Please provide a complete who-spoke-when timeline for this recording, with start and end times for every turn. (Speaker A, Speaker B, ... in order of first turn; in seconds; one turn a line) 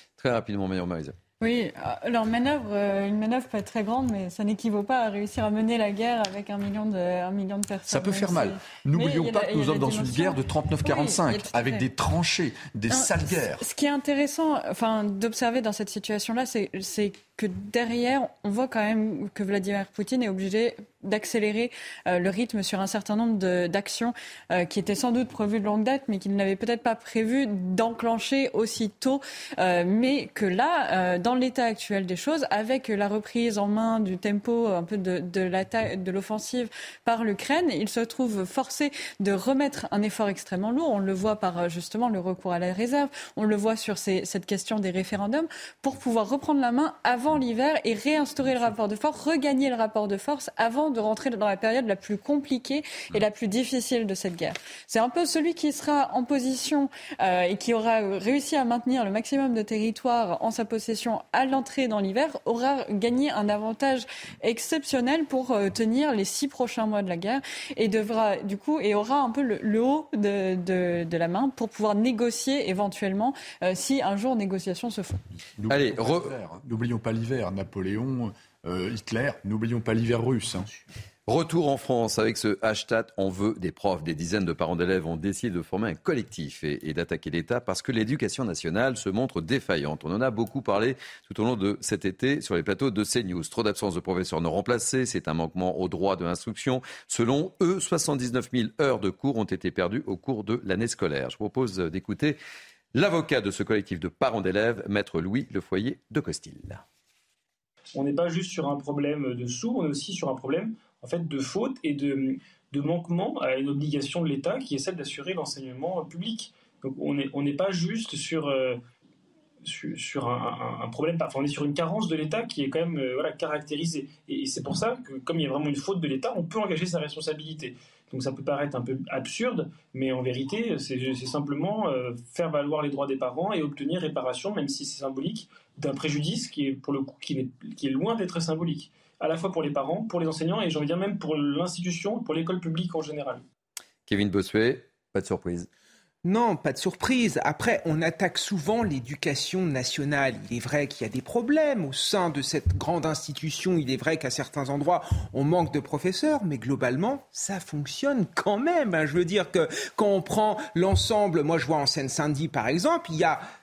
Speaker A: 0.2-1.2
Speaker B: 1.4-11.9
Speaker C: 7.9-13.6
Speaker B: 12.9-75.2
Speaker C: 75.6-80.7
Speaker A: 75.7-76.5
Speaker A: 81.3-102.4
Speaker A: 102.9-106.8
Speaker D: 108.0-118.8
Speaker D: 119.6-143.4
Speaker A: 144.1-145.7
Speaker E: 146.2-163.4